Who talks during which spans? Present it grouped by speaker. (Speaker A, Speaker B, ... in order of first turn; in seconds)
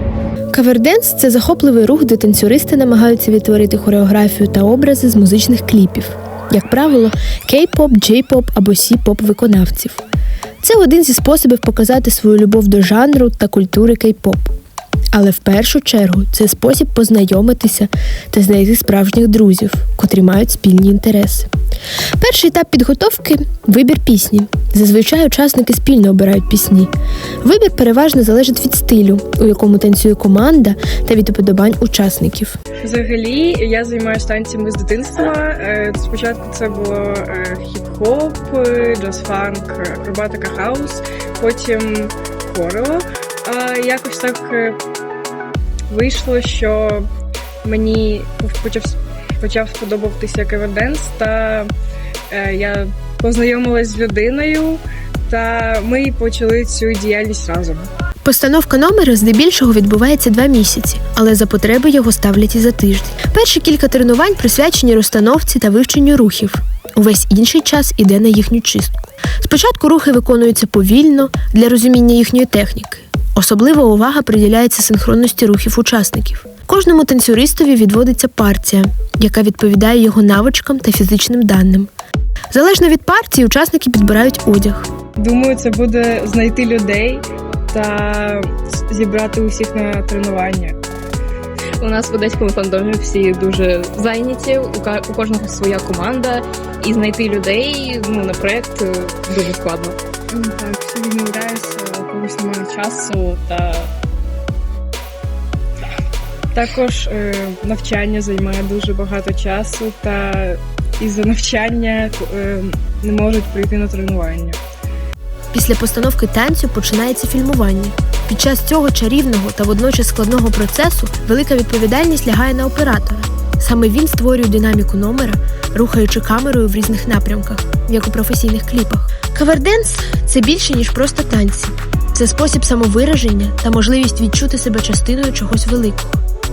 Speaker A: 0.5-10.0, 10.6-14.5, 15.1-21.5, 22.2-26.9, 27.4-32.6, 58.2-81.9, 82.5-84.9, 115.5-136.2
Speaker B: 32.8-44.8, 45.9-47.1, 47.6-51.7, 52.3-57.9, 85.2-90.8, 100.3-103.9, 106.5-114.6
Speaker C: 91.8-100.0